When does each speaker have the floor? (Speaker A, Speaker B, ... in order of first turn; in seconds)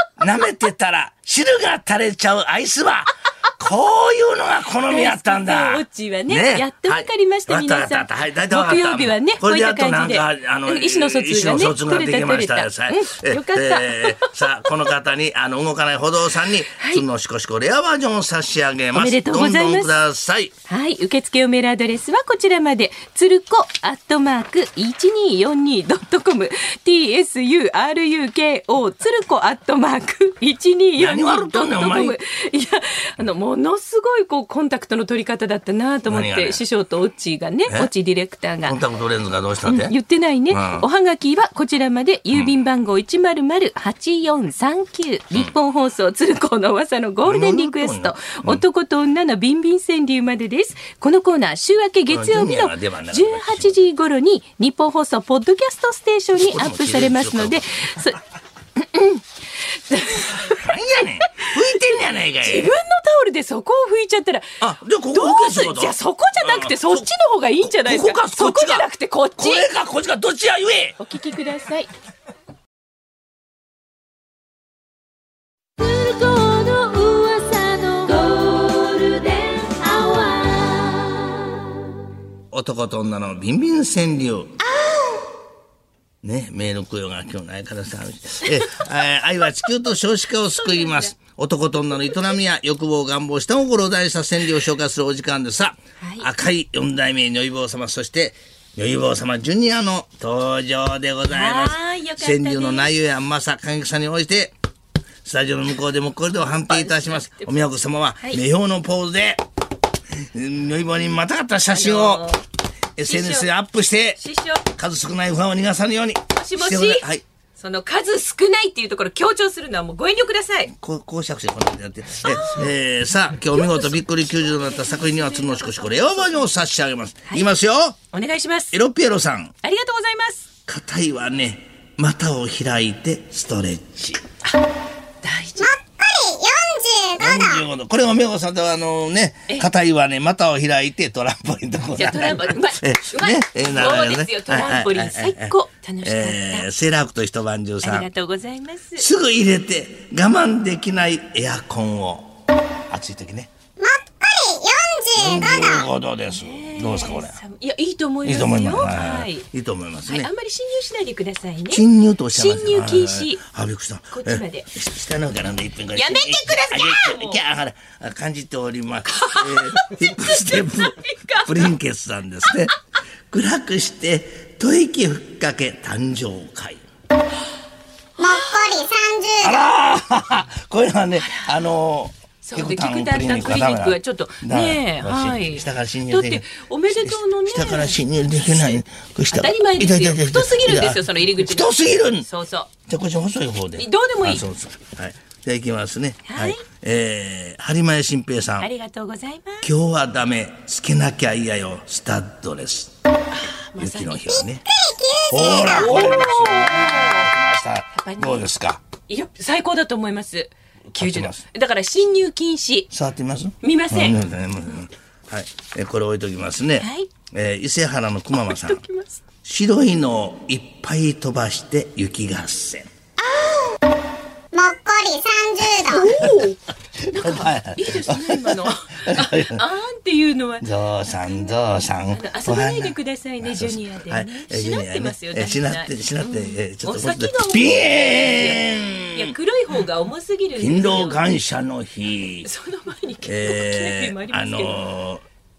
Speaker A: 0.2-20.5, 31.0-32.2, 36.1-36.6, 38.6-40.0, 40.5-40.9, 47.2-48.6, 52.1-53.8, 56.4-57.9, 60.4-62.8, 64.6-67.1, 67.6-71.0, 82.5-84.6, 86.2-104.5, 105.2-109.4, 110.1-112.2, 113.0-114.2, 114.7-117.2, 120.7-128.0, 128.7-129.5, 130.7-134.2, 137.2-148.1, 149.0-152.3, 152.9-153.5, 155.1-157.4, 158.2-160.3, 161.7-172.8, 173.3-176.8, 179.4-186.5, 187.0-192.3, 192.9-198.7, 199.6-202.9, 203.8-204.7, 205.3-208.8, 210.9-211.4, 212.9-218.8, 219.4-222.9, 226.0-226.4, 227.1-229.7, 230.6-239.3, 240.6-242.5, 243.2-245.2
Speaker B: 4.8-14.8, 16.7-17.0, 18.9-19.9, 20.7-38.8, 39.6-58.2, 58.8-61.5, 62.4-64.6, 65.1-69.7, 71.0-71.9, 75.8-81.8, 84.7-85.2, 90.6-91.1, 96.0-96.3, 101.3-102.9, 106.5-107.6, 111.7-112.4, 113.0-113.5, 114.2-114.7, 116.3-120.7, 122.2-122.7, 123.4-126.6, 128.1-128.8, 129.6-130.5, 135.2-135.8, 141.9-146.7, 147.8-149.1, 156.3-159.5, 160.1-163.4, 164.1-164.7, 165.9-167.4, 169.1-171.7, 178.2-178.9, 181.2-181.5, 182.4-188.8, 189.3-192.7, 193.8-194.4, 196.3-196.6, 198.6-199.7, 203.3-204.4, 205.5-207.3, 207.9-208.5, 209.1-212.9, 213.6-214.2, 216.8-217.1, 218.3-219.2, 223.3-223.6, 225.8-231.6, 232.1-241.2, 242.4-244.8
Speaker C: 135.6-137.6, 153.8-155.8, 178.2-179.5, 204.7-205.6, 224.5-226.0